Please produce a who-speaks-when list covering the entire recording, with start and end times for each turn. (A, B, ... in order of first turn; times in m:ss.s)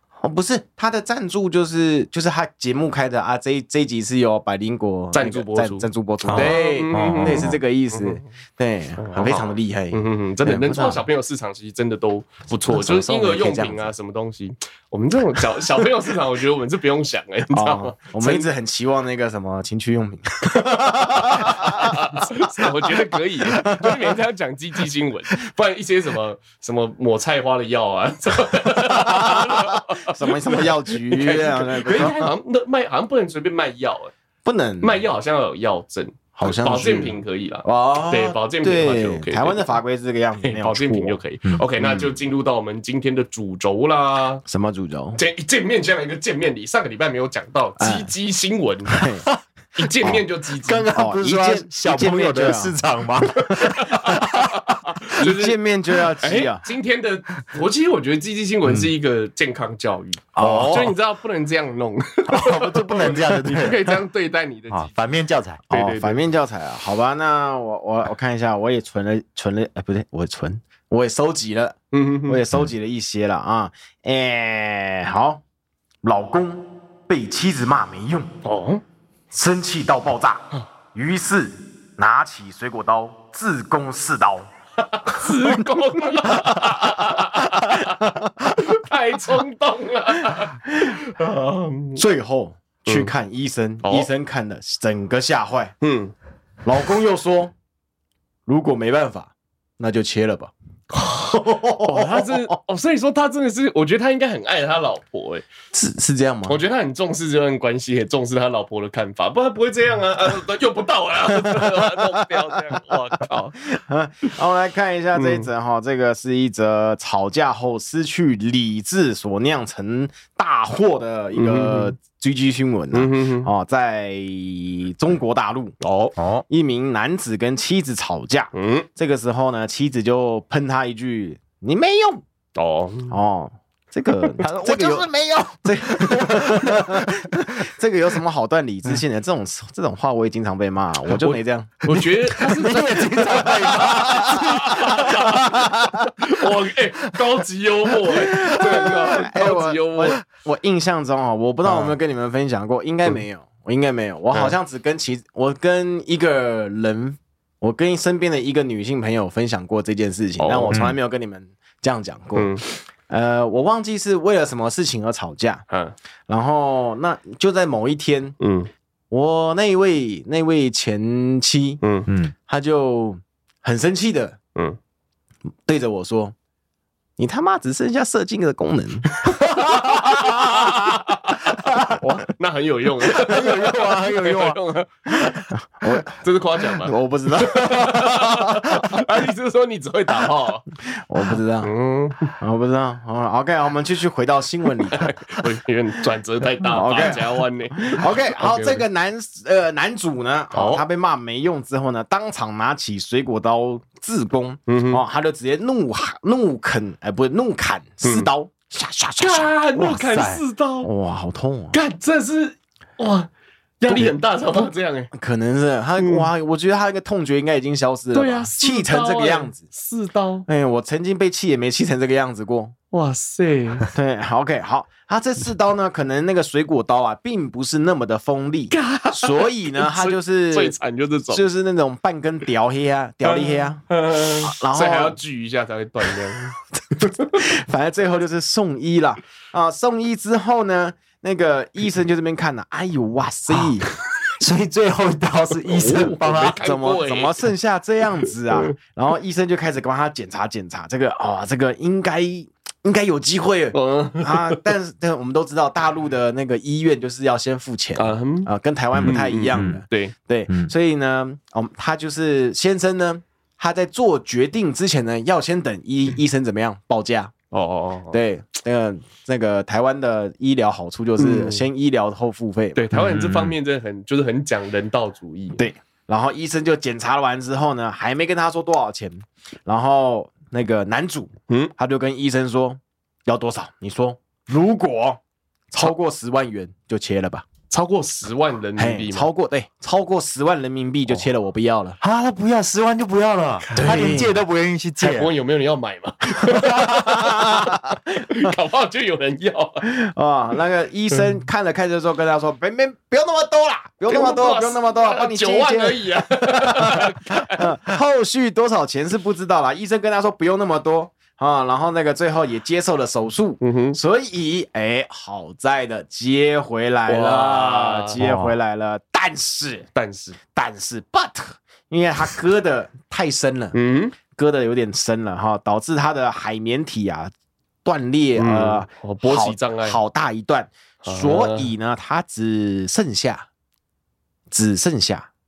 0:00.2-0:11.0 A
0:05.1-0:08.2 B
0:06.2-0:07.6 C
0:09.0-0:18.5 B
0:12.7-0:13.9 A
0:17.5-0:22.2 A
0:20.5-0:34.1 B
0:23.4-0:24.1 A
0:28.8-0:32.3 A
0:34.4-0:35.0 A
0:34.8-0:39.8 B
0:36.4-0:41.2 A
0:40.4-0:44.4 B
0:41.8-0:42.1 A
0:44.4-0:45.2 A
0:45.2-0:49.0 B
0:47.8-0:48.1 A
0:48.9-0:49.3 A
0:49.8-0:50.9 B
0:50.1-0:54.7 C
0:50.9-0:52.8 A
0:53.4-0:55.6 B
0:55.1-0:56.6 A
0:56.2-1:05.0 B
0:58.6-0:58.9 C
1:00.4-1:00.9 A
1:00.4-1:00.9 C
1:02.3-1:03.9 C
1:04.7-1:05.6 C
1:05.7-1:06.2 B
1:05.7-1:15.4 A
1:11.9-1:12.4 B
1:16.0-1:18.3 A
1:18.4-1:18.8 B
1:19.3-1:24.5 A
1:25.0-1:28.0 B
1:26.2-1:28.6 A
1:28.5-1:32.0 B
1:30.7-1:30.9 A
1:32.0-1:35.7 A
1:32.8-1:33.1 B
1:33.8-1:34.1 B
1:35.8-1:36.1 B
1:36.6-1:37.5 A
1:38.5-1:40.5 A
1:40.9-1:45.4 B
1:41.3-1:42.5 A
1:45.7-1:46.6 A
1:46.5-1:53.7 B
1:51.5-1:52.3 A
1:53.7-2:05.8 A
1:55.2-1:55.5 B
2:01.4-2:01.9 B
2:02.9-2:03.5 B
2:05.8-2:06.1 B
2:06.2-2:06.4 C
2:06.5-2:12.2 A
2:08.5-2:08.9 B
2:12.6-2:13.2 B
2:13.1-2:26.0 A
2:14.6-2:17.5 C
2:21.1-2:30.2 B
2:22.4-2:25.1 C
2:28.1-2:45.6 A
2:31.6-2:31.9 C
2:40.4-2:40.9 B
2:42.3-2:42.6 B
2:45.7-2:46.0 B
2:46.3-2:48.4 A
2:48.4-2:48.7 B
2:49.1-2:51.8 A
2:51.8-2:52.1 B
2:52.1-2:52.3 C
2:52.5-2:54.4 A
2:55.6-2:56.3 A
2:57.2-3:00.9 A
2:59.2-3:10.6 B
3:01.6-3:01.9 A
3:03.1-3:04.5 A
3:03.4-3:04.3 C
3:05.1-3:06.1 A
3:06.8-3:09.0 A
3:10.9-3:11.7 A
3:11.6-3:12.4 B
3:12.3-3:15.2 A
3:14.9-3:18.8 B
3:16.6-3:29.5 A
3:20.5-3:20.8 B
3:24.7-3:25.0 B
3:28.0-3:28.3 B
3:29.2-3:30.9 B
3:29.7-3:30.4 C
3:30.8-3:31.8 A
3:31.7-3:35.1 B
3:35.1-3:39.6 A
3:36.0-3:36.3 B
3:38.1-3:40.4 B
3:40.5-3:42.7 A
3:42.9-3:43.9 B
3:43.9-3:50.7 A
3:48.7-3:51.4 B
3:51.3-3:55.2 A
3:53.2-3:57.4 B
3:56.7-4:03.9 A
4:04.4-4:06.6 C
4:05.7-4:07.4 B
4:06.6-4:27.3 A
4:13.7-4:14.6 B
4:18.0-4:18.5 B
4:18.9-4:19.8 C
4:19.0-4:20.1 B
4:27.5-4:28.2 B
4:28.1-4:32.8 A
4:31.2-4:31.6 B
4:32.8-4:35.6 B
4:32.9-4:33.5 C
4:35.6-4:45.2 A
4:45.7-4:47.4 A
4:47.7-4:49.3 B
4:48.8-4:52.0 A
4:52.0-4:55.3 C
4:53.6-4:54.2 B
4:53.7-4:54.4 A
4:55.0-4:59.8 B
4:56.5-4:57.1 C
4:56.9-4:57.9 A
4:59.8-5:19.9 A
5:04.1-5:07.7 B
5:13.6-5:14.0 B
5:17.1-5:18.2 B
5:18.2-5:18.5 C
5:19.9-5:20.4 B
5:20.5-5:27.3 A
5:23.7-5:24.2 B
5:27.8-5:33.5 A
5:28.4-5:30.0 B
5:31.0-5:31.7 B
5:34.5-5:35.3 A